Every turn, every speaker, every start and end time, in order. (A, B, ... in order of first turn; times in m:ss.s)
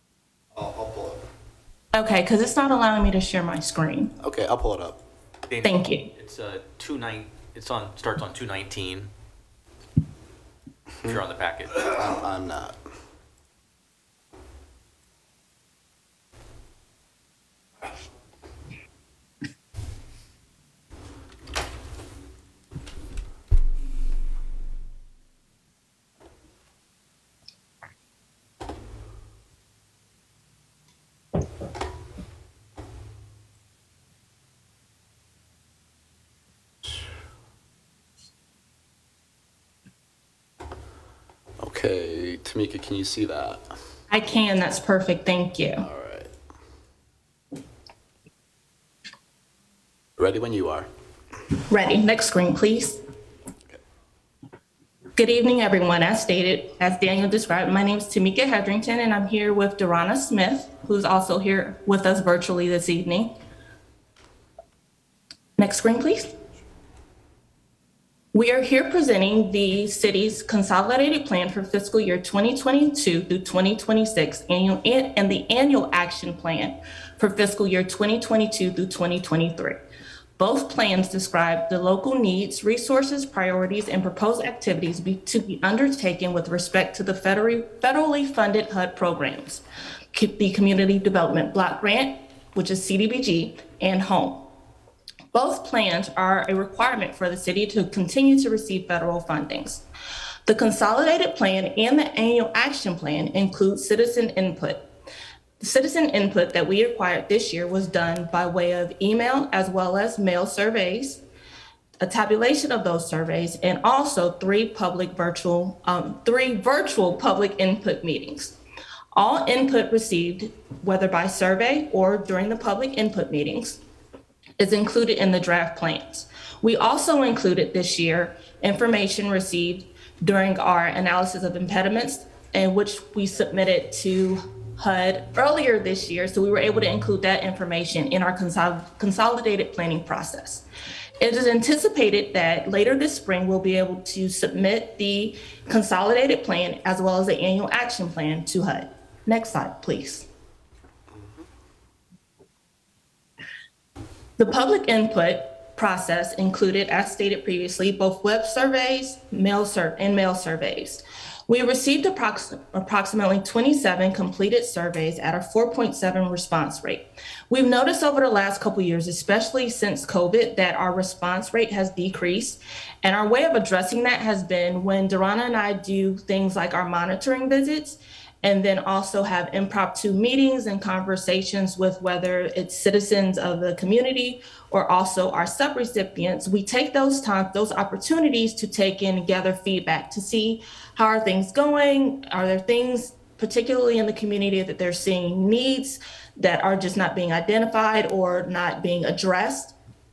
0:00.5-0:01.2 A
0:01.9-0:04.1 B
0:04.2-0:05.0 A
0:05.5-0:09.1 C
0:05.6-0:06.1 B
0:11.0-0:12.8 A
0:11.0-0:12.0 C
0:41.6-0:43.7 A
0:44.1-0:45.8 B
0:45.8-0:46.3 A
0:50.2-0:50.9 A
0:51.7-0:53.0 B
0:55.2-1:03.3 B
1:05.6-1:06.4 B
1:08.3-1:19.8 B
1:20.4-1:34.4 B
1:35.3-1:39.8 B
1:40.5-1:44.8 B
1:45.6-1:51.2 B
1:52.0-1:58.6 B
1:59.1-2:03.8 B
2:04.6-2:20.6 B
2:21.2-2:30.3 B
2:34.4-3:19.7 B